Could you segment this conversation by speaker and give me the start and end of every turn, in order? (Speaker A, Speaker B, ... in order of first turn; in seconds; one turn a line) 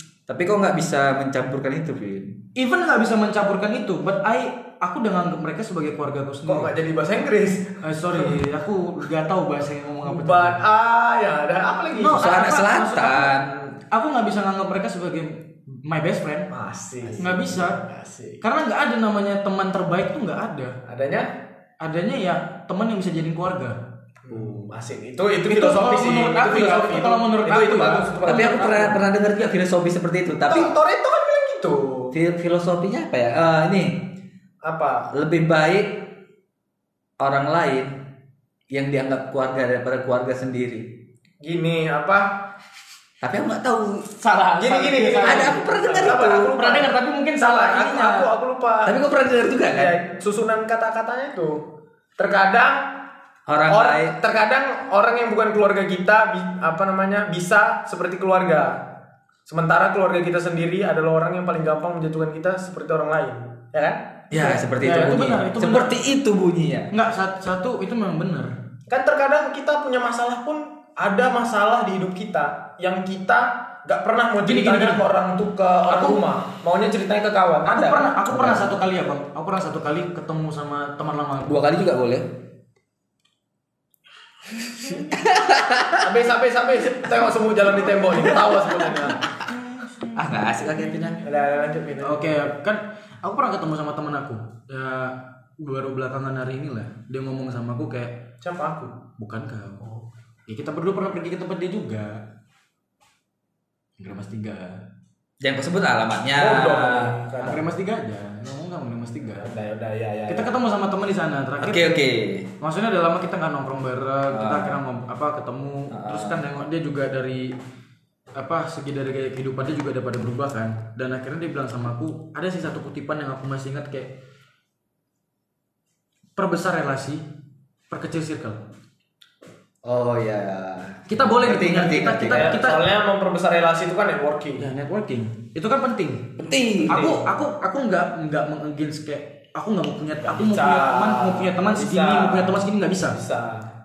Speaker A: 0.3-2.4
Speaker B: 2.6-6.7
Speaker C: 6.5-8.4
Speaker B: 7.8-10.6
Speaker C: 10.0-12.2
Speaker B: 12.0-13.3
Speaker A: 12.1-13.6
Speaker B: 13.9-16.5
Speaker C: 16.5-18.4
Speaker B: 17.2-17.8
Speaker B: 18.4-20.8
Speaker C: 20.9-21.3
Speaker B: 21.8-23.8
Speaker C: 24.2-29.0
Speaker B: 25.5-28.1
Speaker A: 28.2-30.7
Speaker C: 30.5-32.1
Speaker A: 32.1-34.1
Speaker C: 34.6-35.1
Speaker A: 35.1-36.1
Speaker A: 37.2-37.9
Speaker A: 38.7-40.9
Speaker C: 41.4-42.4
Speaker A: 43.2-44.1
Speaker B: 44.2-48.3
Speaker C: 44.6-49.0
Speaker A: 45.2-46.5
Speaker A: 48.9-50.0
Speaker C: 49.7-51.6
Speaker C: 52.2-52.9
Speaker A: 53.5-54.2
Speaker C: 53.7-58.8
Speaker C: 59.5-64.1
Speaker A: 64.3-66.9
Speaker B: 64.3-65.9
Speaker B: 66.9-68.5
Speaker C: 68.9-78.1
Speaker B: 74.5-75.0
Speaker B: 75.9-76.2
Speaker B: 77.7-81.6
Speaker A: 78.3-78.7
Speaker A: 81.5-82.3
Speaker A: 85.1-86.1
Speaker C: 86.0-89.2
Speaker A: 90.1-91.2
Speaker C: 91.2-92.5
Speaker B: 92.0-98.2
Speaker C: 98.4-99.0
Speaker B: 99.2-99.8
Speaker B: 100.5-102.2
Speaker B: 104.0-104.8
Speaker A: 105.4-107.2
Speaker C: 106.4-107.7
Speaker B: 107.4-109.5
Speaker C: 109.3-110.5
Speaker B: 110.3-112.0
Speaker A: 111.6-112.5
Speaker B: 112.6-117.5
Speaker A: 114.3-114.7
Speaker A: 115.9-116.4
Speaker B: 118.3-124.1
Speaker B: 126.4-127.2
Speaker B: 127.9-128.6
Speaker A: 129.8-132.7
Speaker B: 131.1-132.8
Speaker C: 132.3-134.7
Speaker B: 134.6-136.3
Speaker A: 136.4-137.2
Speaker B: 136.9-143.2
Speaker C: 136.9-137.3
Speaker C: 140.3-143.7